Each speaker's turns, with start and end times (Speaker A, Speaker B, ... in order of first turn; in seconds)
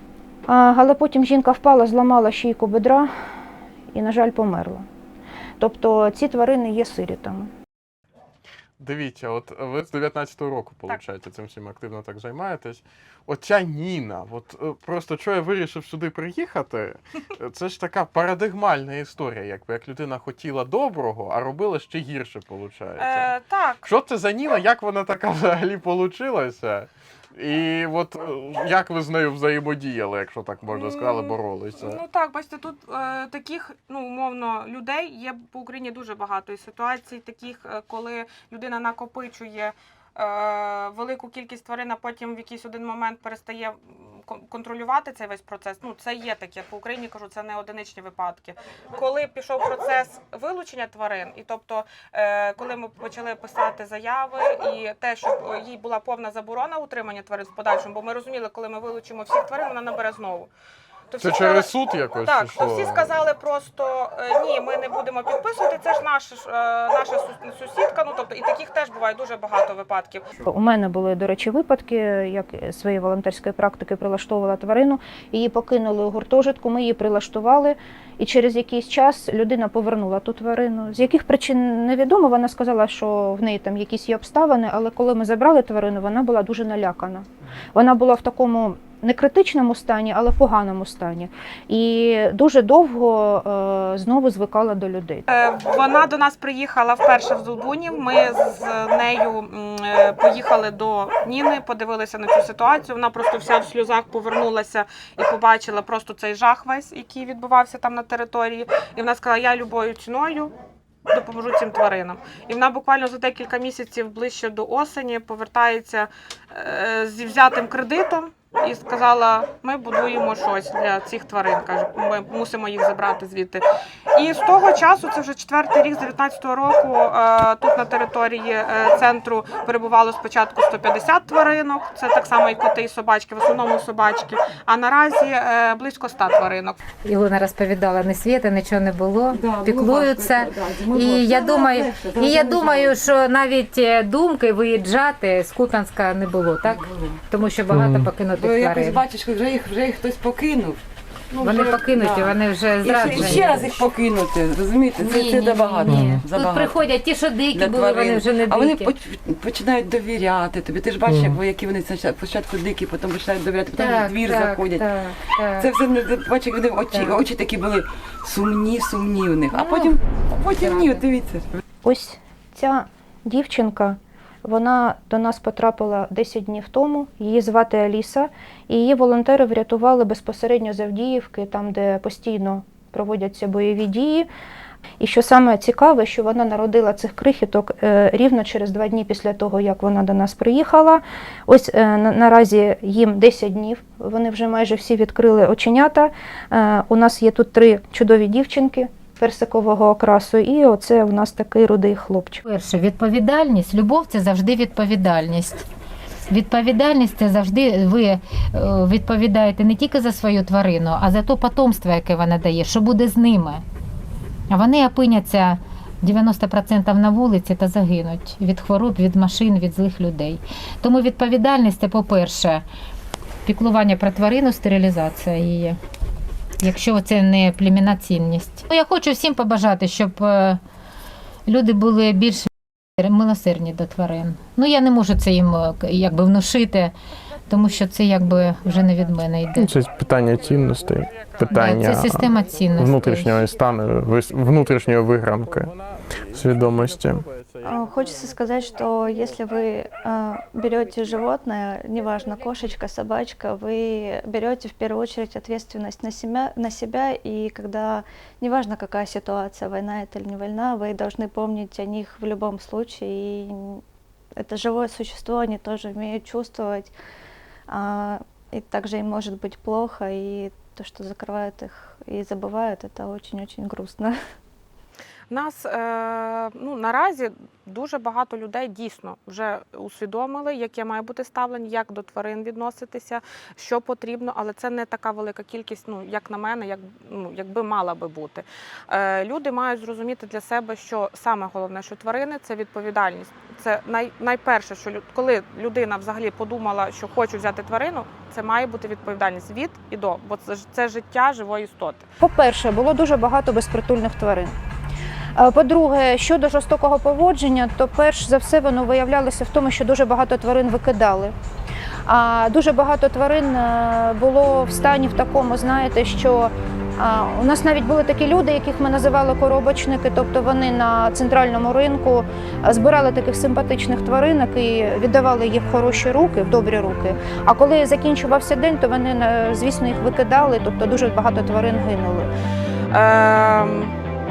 Speaker A: 0.5-3.1, 3.9-4.9, 5.6-7.5, 70.5-95.2, 171.8-184.3, 185.0-202.4, 302.2-304.5, 305.4-311.3, 312.1-332.3
Speaker B: 8.8-23.3, 23.8-32.0, 61.2-63.1, 239.6-247.7
Speaker C: 23.0-23.8, 30.7-60.5, 61.1-70.2, 95.3-110.5, 111.1-136.8, 275.3-302.1, 332.9-333.9
Speaker D: 137.1-149.0, 151.4-153.9, 155.0-158.9, 163.7-165.7, 166.9-167.2, 169.5-169.9, 170.6-171.0, 202.5-205.7, 206.3-213.6, 214.5-222.6, 223.5-225.8, 226.6-230.6, 231.5-236.9, 237.5-239.7, 241.4-243.4
Speaker E: 139.3-143.0, 146.8-147.2, 148.3-150.8, 151.3-156.8, 157.5-164.9, 165.6-171.5
Speaker F: 247.6-263.8, 264.4-266.9, 267.7-274.2